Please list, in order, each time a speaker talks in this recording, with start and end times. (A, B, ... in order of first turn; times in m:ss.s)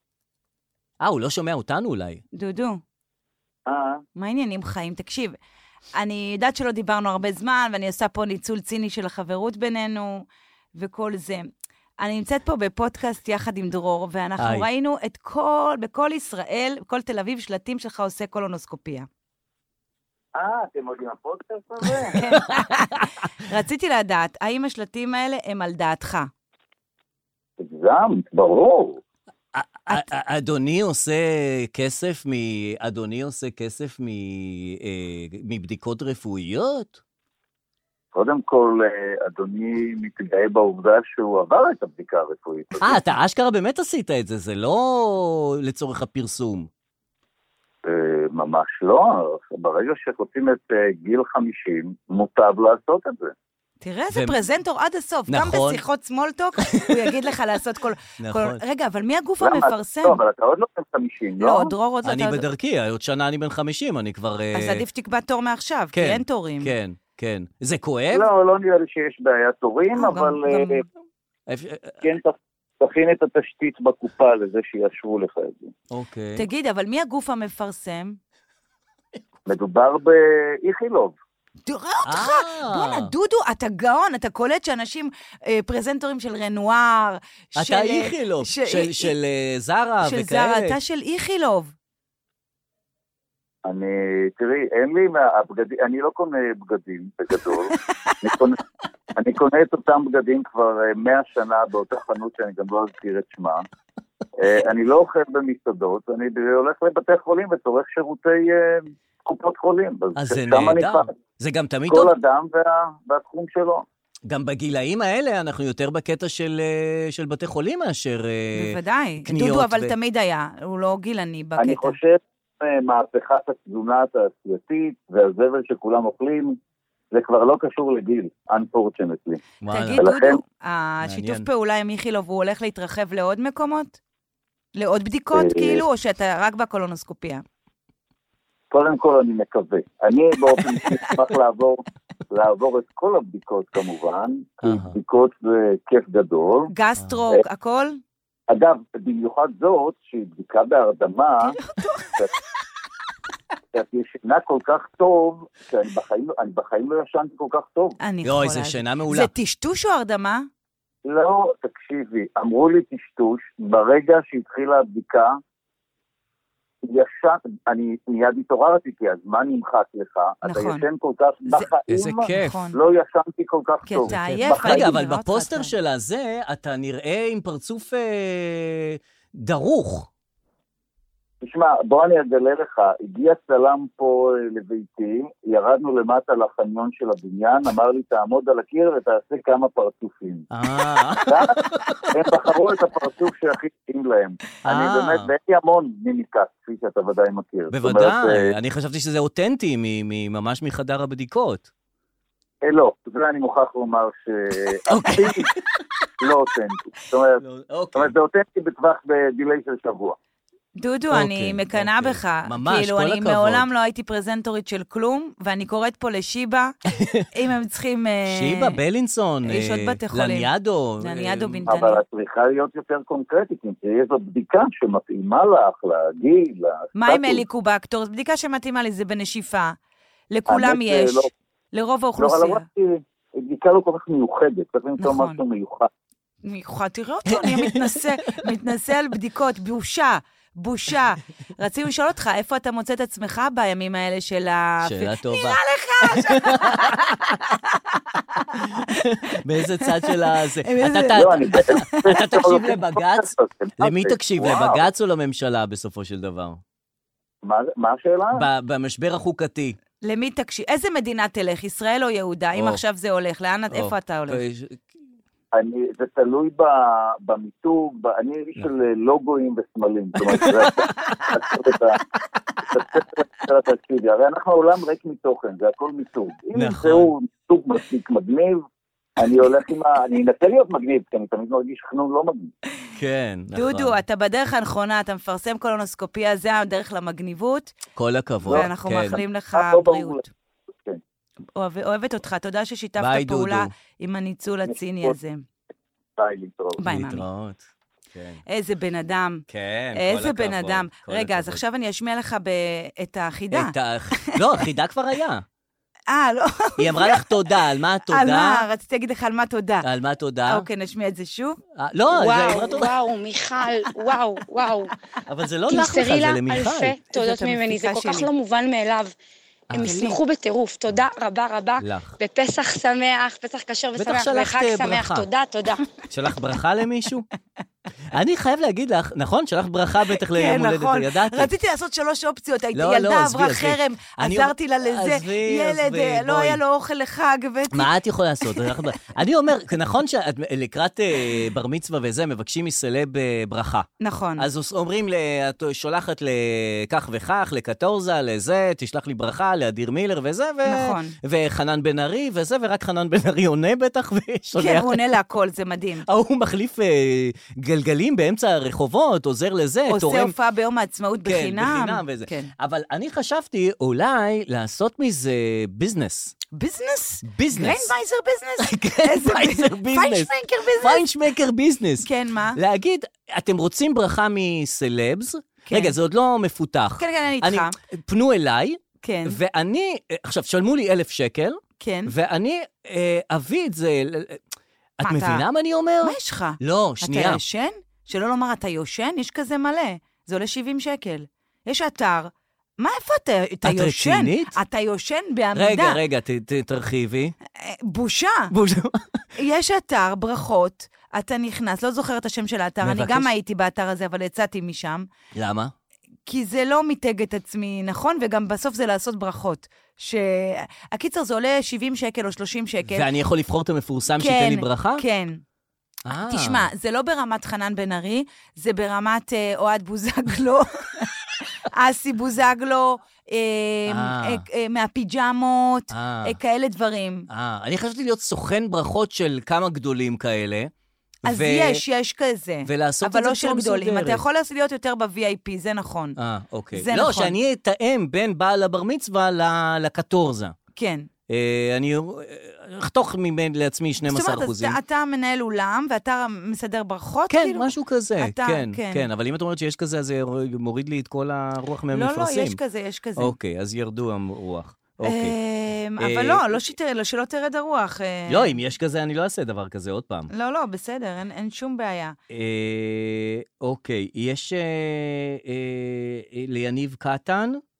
0:01.0-0:02.2 A
0:02.3-0:02.8 B
0:03.7-0:04.0 C
0:04.2-0:05.4 B
0:06.0-0:11.5 B
0:12.0-0:19.1 B
0:14.4-0:14.7 A
0:20.4-0:22.2 C
0:22.2-0:26.3 B
0:22.2-0:22.7 A
0:27.6-0:29.0 C
0:29.5-0:37.0 A
0:38.1-0:43.0 C
0:42.8-0:46.7 A
0:47.8-0:53.3 C
0:53.8-1:00.2 B
0:54.1-0:54.4 A
0:55.3-0:55.8 A
0:56.7-0:57.2 A
0:58.2-0:58.6 A
0:59.4-1:01.7 C
1:01.4-1:02.4 B
1:02.0-1:04.8 A
1:04.5-1:06.7 B
1:05.9-1:08.3 A
1:08.1-1:10.8 C
1:10.0-1:10.8 B
1:11.5-1:12.0 A
1:12.0-1:15.7 C
1:15.9-1:16.5 A
1:16.4-1:18.2 B
1:19.5-1:21.2 C
1:21.7-1:29.1 B
1:22.0-1:23.1 A
1:27.6-1:30.8 A
1:30.0-1:31.7 B
1:33.6-1:38.6 C
1:39.2-1:43.7 C
1:44.4-1:51.1 C
1:50.2-1:52.1 A
1:51.9-1:53.8 C
1:54.3-1:59.9 A
1:58.6-2:02.0 B
2:01.6-2:06.6 C
2:07.1-2:09.4 C
2:09.6-2:10.1 A
2:09.7-2:14.0 B
2:10.0-2:10.4 C
2:11.0-2:11.5 A
2:14.8-2:17.4 B
2:15.3-2:15.8 C
2:18.7-2:26.7 C
2:24.6-2:25.0 A
2:26.7-2:28.0 B
2:28.5-2:31.6 C
2:31.4-2:32.2 B
2:33.7-2:38.0 C
2:38.0-2:40.5 B
2:38.2-2:39.3 A
2:41.0-2:45.4 C
2:46.8-2:55.0 C
2:50.4-2:50.8 B
2:51.9-2:52.6 A
2:52.2-2:52.8 B
2:53.9-2:55.7 B
2:54.1-3:00.1 A
3:01.4-3:10.5 C
3:10.5-3:12.1 A
3:11.2-3:18.5 C
3:14.6-3:15.3 A
3:17.7-3:21.7 A
3:22.6-3:25.5 C
3:24.9-3:25.4 A
3:26.2-3:27.4 C
3:27.4-3:28.1 A
3:28.0-3:30.2 C
3:30.8-3:36.8 B
3:31.1-3:33.7 A
3:37.0-3:37.3 A
3:37.3-3:38.8 B
3:38.3-3:41.6 A
3:39.5-3:42.0 B
3:41.7-3:47.4 C
3:47.0-3:49.8 B
3:50.3-3:52.6 B
3:50.5-3:51.3 C
3:52.2-3:55.9 C
3:55.0-3:55.4 B
3:56.4-4:09.0 B
3:57.3-3:58.0 A
4:04.8-4:07.4 A
4:08.6-4:16.6 A
4:09.8-4:10.1 B
4:10.6-4:12.2 B
4:11.1-4:14.8 C
4:17.4-4:18.4 C
4:18.3-4:19.8 A
4:20.0-4:24.4 B
4:22.6-4:22.8 A
4:23.7-4:24.8 A
4:25.5-4:32.0 C
4:30.2-4:31.2 A
4:32.7-4:38.6 C
4:36.6-4:37.1 A
4:39.2-4:42.5 C
4:43.0-4:44.0 A
4:43.5-4:47.7 B
4:48.0-4:49.2 A
4:48.5-4:50.2 C
4:48.5-4:50.3 B
4:51.6-4:55.4 B
4:53.0-4:53.7 A
4:54.7-4:55.1 C
4:56.2-4:56.8 C
4:56.8-4:57.2 B
4:56.8-4:57.6 A
4:58.1-4:58.4 A
4:58.5-5:03.8 B
4:59.5-5:01.6 A
5:03.5-5:05.4 A
5:06.1-5:07.5 B
5:06.8-5:08.7 A
5:08.1-5:09.9 B
5:09.8-5:10.7 A
5:10.5-5:11.6 B
5:11.8-5:12.9 A
5:12.2-5:14.9 D
5:15.3-5:17.0 A
5:15.7-5:19.1 D
5:17.1-5:18.3 B
5:19.7-5:20.0 A
5:19.7-5:25.8 D
5:19.8-5:20.2 B
5:21.8-5:22.2 A
5:24.0-5:25.3 A
5:26.1-5:27.3 A
5:28.1-5:31.5 A
5:30.1-5:37.9 B
5:32.7-5:36.6 A
5:37.7-5:55.0 A
5:38.5-5:39.2 B
5:44.0-5:44.5 B
5:50.6-5:51.2 B
5:54.6-5:56.0 B
5:56.1-6:00.4 A
5:59.9-6:02.5 B
6:01.2-6:06.4 A
6:06.5-6:11.1 B
6:07.2-6:07.9 A
6:08.6-6:24.4 A
6:12.0-6:12.6 B
6:15.7-6:15.9 B
6:17.0-6:17.8 B
6:19.0-6:19.4 B
6:21.8-6:22.1 B
6:25.0-6:27.4 A
6:25.0-6:25.4 B
6:26.0-6:36.0 B
6:33.6-6:34.6 A
6:35.5-6:37.4 A
6:37.6-6:38.5 B
6:38.5-6:39.2 A
6:39.4-6:45.1 B
6:42.8-6:43.3 A
6:45.3-6:45.7 A
6:46.3-6:53.1 B
6:52.9-6:55.0 A
6:54.2-6:55.4 B
6:56.1-6:56.7 A
6:56.1-7:01.1 B
7:01.7-7:07.3 B
7:03.9-7:04.4 A
7:05.9-7:06.4 A
7:07.3-7:10.7 A
7:11.2-7:11.8 A
7:11.3-7:16.2 B
7:12.6-7:14.2 A
7:16.2-7:20.6 A
7:16.7-7:17.4 B
7:20.8-7:21.1 B
7:21.3-7:24.8 A
7:24.1-7:29.1 B
7:27.3-7:32.6 A
7:31.9-7:33.4 B
7:33.2-7:35.4 A
7:35.0-7:38.6 B
7:36.0-7:36.7 A
7:38.3-7:40.3 A
7:40.3-7:42.2 B
7:42.3-7:47.6 A